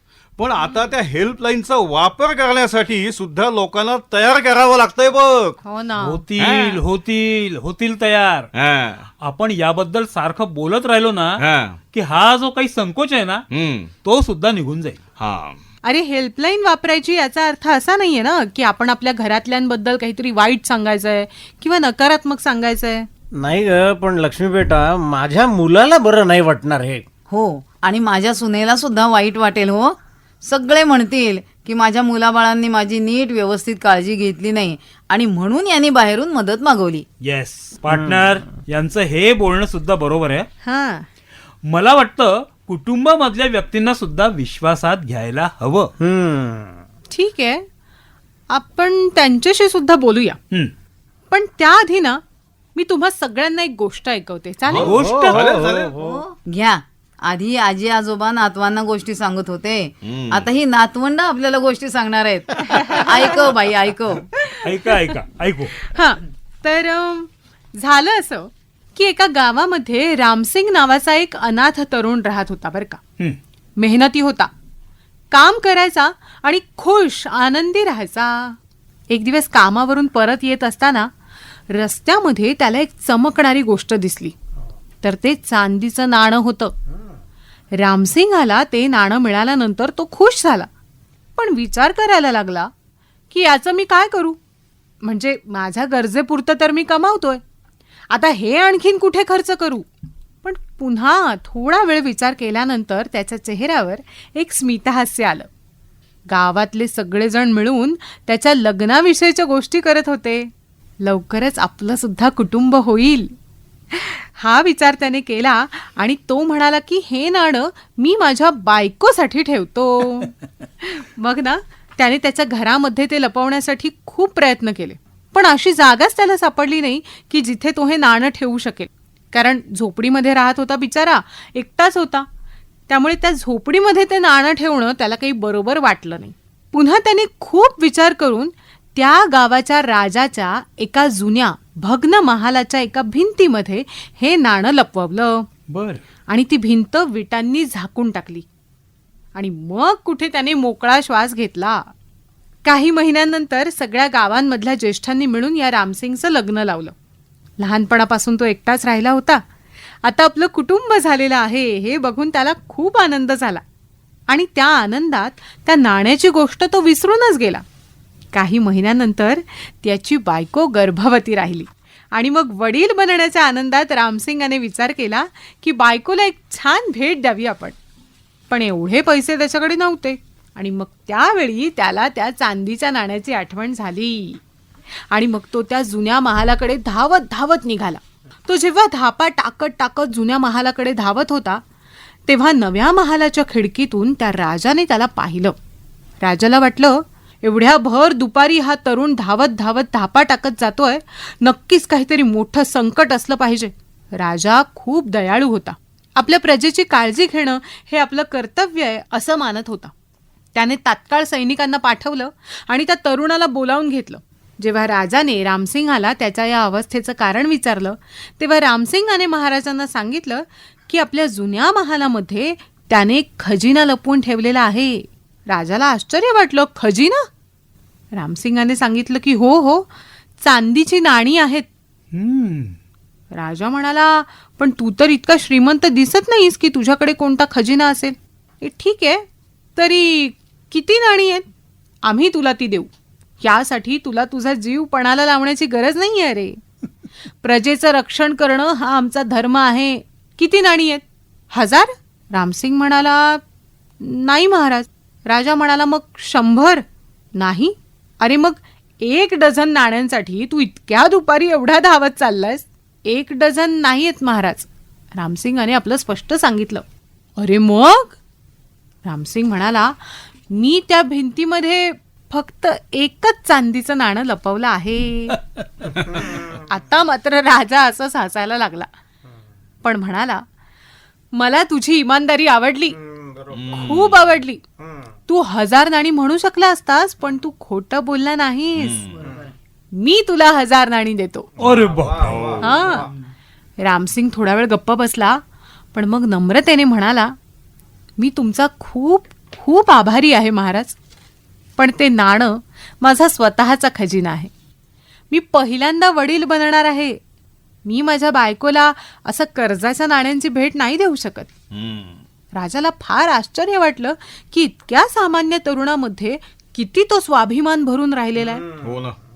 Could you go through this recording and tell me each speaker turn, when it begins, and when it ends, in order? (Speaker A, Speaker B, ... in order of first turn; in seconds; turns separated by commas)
Speaker A: 0.4-5.6, Speaker B: 5.6-6.2, Speaker C: 6.0-8.5, Speaker A: 6.4-6.8, Speaker A: 8.6-9.1, Speaker C: 9.2-13.4, Speaker A: 11.4-11.8, Speaker A: 13.5-13.9, Speaker C: 14.0-15.0, Speaker A: 15.2-15.6, Speaker B: 15.8-23.1, Speaker D: 23.4-27.1, Speaker E: 27.3-37.0, Speaker C: 37.2-40.5, Speaker D: 37.9-38.3, Speaker B: 40.6-41.1, Speaker C: 41.6-45.9, Speaker D: 46.0-46.8, Speaker B: 47.1-47.6, Speaker B: 48.5-50.4, Speaker B: 51.3-52.2, Speaker B: 52.7-54.9, Speaker A: 54.7-55.9, Speaker C: 54.8-55.5, Speaker D: 54.9-56.3, Speaker E: 56.0-64.3, Speaker A: 60.0-60.5, Speaker B: 62.8-63.5, Speaker B: 64.4-65.2, Speaker C: 64.6-65.7, Speaker B: 65.7-73.0, Speaker B: 73.8-74.5, Speaker B: 75.3-78.6, Speaker B: 79.1-81.1, Speaker B: 81.7-84.3, Speaker B: 85.0-86.7, Speaker B: 87.7-90.7, Speaker B: 91.4-92.7, Speaker B: 93.3-94.4, Speaker B: 95.0-97.4, Speaker B: 98.1-99.9, Speaker B: 100.4-105.5, Speaker B: 106.3-113.3, Speaker B: 113.9-132.3, Speaker B: 132.9-145.5, Speaker C: 145.7-146.0, Speaker B: 146.3-148.4, Speaker B: 149.3-151.9, Speaker B: 152.6-156.9, Speaker B: 157.6-159.4, Speaker B: 160.0-163.6, Speaker B: 164.3-167.6, Speaker B: 168.3-177.8, Speaker B: 178.5-184.4, Speaker B: 185.1-191.6, Speaker B: 192.3-195.6, Speaker B: 196.2-209.9, Speaker B: 210.6-227.3, Speaker B: 228.1-229.9, Speaker B: 230.4-231.7, Speaker C: 232.1-232.8, Speaker B: 233.3-239.2, Speaker B: 239.8-241.5, Speaker B: 242.0-242.9, Speaker B: 243.4-246.6, Speaker B: 247.4-253.4, Speaker B: 254.0-256.9, Speaker B: 257.4-266.8, Speaker B: 267.4-268.1, Speaker B: 269.1-275.4, Speaker B: 276.7-278.9, Speaker B: 279.8-280.4, Speaker B: 281.3-282.9, Speaker A: 283.5-284.3, Speaker B: 283.7-284.6, Speaker B: 285.3-289.2, Speaker A: 288.8-289.3, Speaker B: 289.9-291.5, Speaker C: 291.6-292.6, Speaker A: 291.6-293.1, Speaker B: 292.6-293.1, Speaker B: 293.8-295.4, Speaker B: 295.9-297.3, Speaker B: 298.2-300.9, Speaker B: 301.8-304.5, Speaker B: 305.3-307.2, Speaker B: 307.9-311.5, Speaker A: 311.7-312.2, Speaker B: 312.5-318.7, Speaker A: 318.8-319.2